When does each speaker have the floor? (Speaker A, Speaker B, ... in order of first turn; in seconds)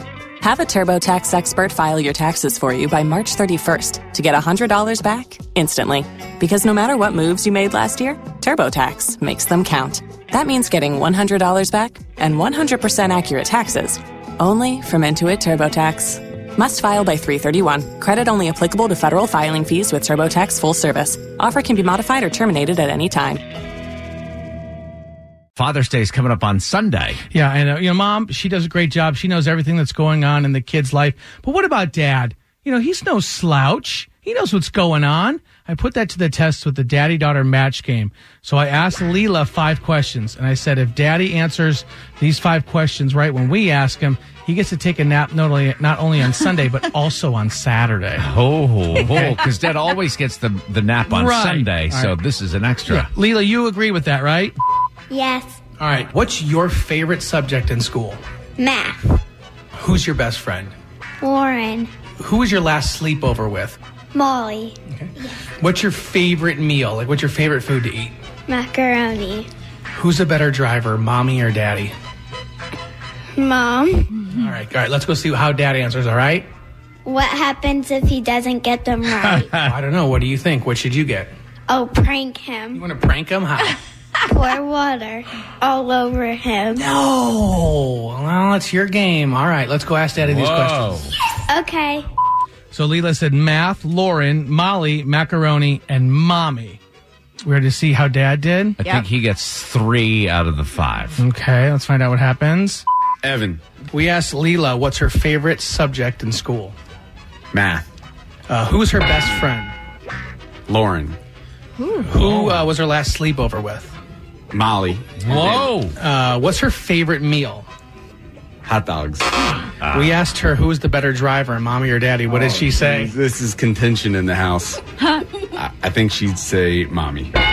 Speaker A: 0.4-23.4
Speaker B: 25.6-27.2, 48.2-53.1, 90.2-91.1, 98.8-101.2, 115.3-115.9
Speaker C: 27.3-48.3, 51.1-52.1, 52.9-54.5, 55.8-58.2, 59.8-60.7, 62.2-63.8, 64.9-68.2, 69.9-71.9, 74.3-76.5, 79.5-81.3, 82.7-83.8, 86.7-91.1, 92.7-96.8, 97.4-98.8, 101.2-102.8, 103.9-106.7, 108.5-109.7, 111.9-113.9, 115.3-117.7, 119.9-123.1
Speaker D: 55.1-55.6, 58.6-59.0, 61.2-61.9, 64.1-64.8, 68.5-69.5, 73.3-74.2, 77.0-79.5, 81.7-82.8, 84.3-86.8, 91.5-92.0
Speaker E: 103.2-103.6, 107.5-107.9, 110.7-111.2, 114.5-115.8, 118.6-119.6, 122.3-124.8, 125.5-127.3